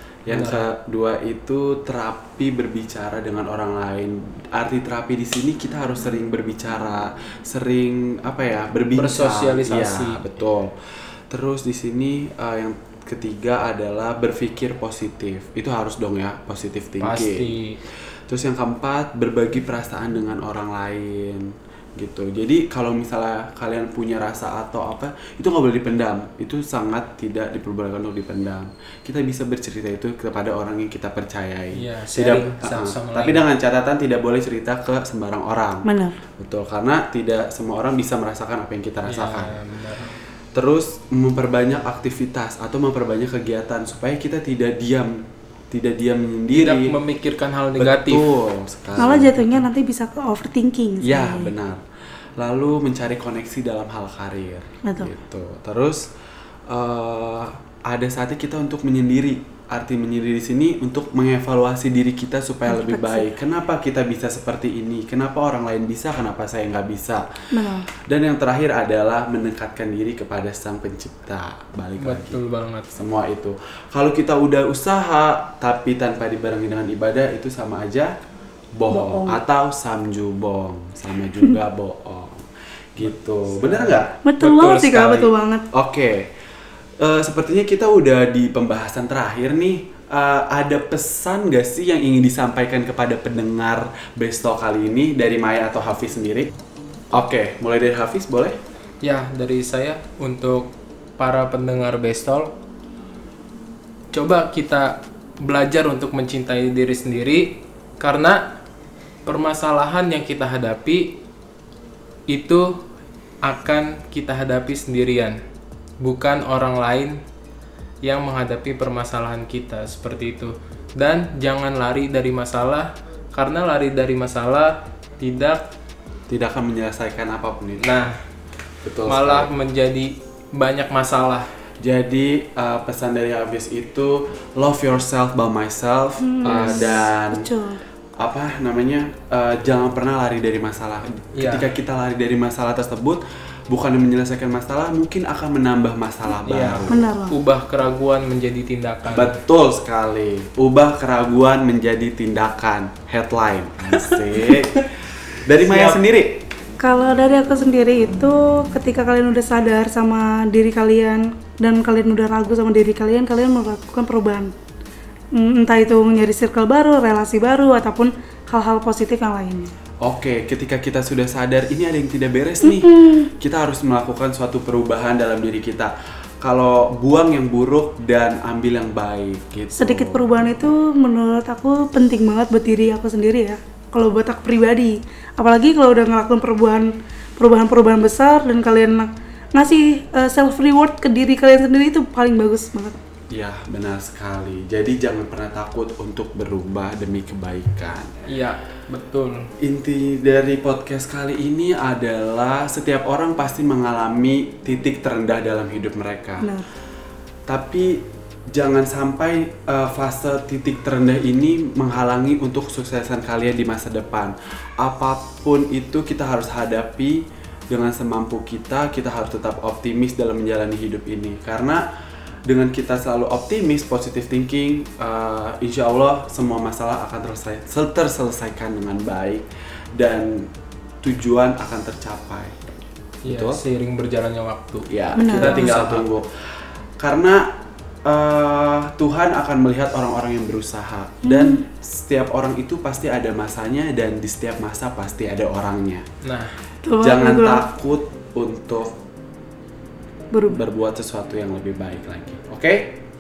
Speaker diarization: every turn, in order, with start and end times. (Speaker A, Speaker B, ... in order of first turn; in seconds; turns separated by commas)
Speaker A: 0.3-17.5, Speaker B: 0.3-0.7, Speaker B: 8.9-10.2, Speaker B: 17.0-17.8, Speaker A: 18.3-35.9, Speaker B: 31.7-33.5, Speaker C: 35.9-36.2, Speaker A: 36.4-39.5, Speaker B: 39.1-40.2, Speaker A: 40.5-46.9, Speaker B: 46.5-48.3, Speaker A: 47.8-49.5, Speaker C: 49.0-51.5, Speaker A: 51.0-51.8, Speaker A: 52.4-56.0, Speaker C: 54.9-55.1, Speaker A: 56.7-67.3, Speaker C: 62.7-63.3, Speaker C: 67.5-67.9, Speaker A: 67.9-72.4, Speaker B: 72.0-72.9, Speaker A: 72.9-78.1, Speaker A: 78.8-84.2, Speaker C: 78.9-79.4, Speaker B: 83.5-85.3, Speaker C: 84.2-85.7, Speaker A: 85.7-86.3, Speaker A: 87.0-96.5, Speaker A: 97.1-98.6, Speaker B: 99.0-102.5, Speaker B: 104.1-108.4, Speaker B: 109.3-111.1, Speaker B: 112.3-112.8, Speaker B: 113.4-115.4, Speaker B: 116.0-117.2, Speaker B: 118.0-125.6, Speaker A: 126.3-127.9, Speaker B: 127.8-128.2, Speaker A: 128.8-129.5, Speaker B: 129.1-131.5, Speaker A: 131.8-137.5, Speaker C: 136.2-137.8, Speaker B: 136.4-136.8, Speaker A: 138.2-147.1, Speaker B: 141.4-141.7, Speaker B: 146.5-149.4, Speaker C: 146.9-147.3, Speaker A: 149.1-154.9, Speaker B: 154.2-154.6, Speaker A: 155.4-156.4, Speaker C: 156.8-164.5, Speaker C: 165.4-169.7, Speaker A: 170.0-180.3, Speaker C: 172.6-173.3, Speaker C: 179.8-193.0, Speaker A: 193.3-198.1, Speaker B: 198.3-199.4, Speaker A: 199.6-206.5, Speaker A: 207.5-221.8, Speaker A: 222.5-230.5, Speaker A: 231.0-232.7, Speaker B: 233.2-236.1, Speaker A: 233.2-233.6, Speaker A: 234.9-236.3, Speaker C: 235.2-235.7, Speaker A: 237.0-237.5, Speaker A: 238.1-246.1, Speaker C: 241.2-241.6, Speaker B: 246.2-246.5, Speaker C: 246.8-247.7, Speaker A: 247.0-249.0, Speaker C: 250.3-250.6, Speaker A: 250.5-253.0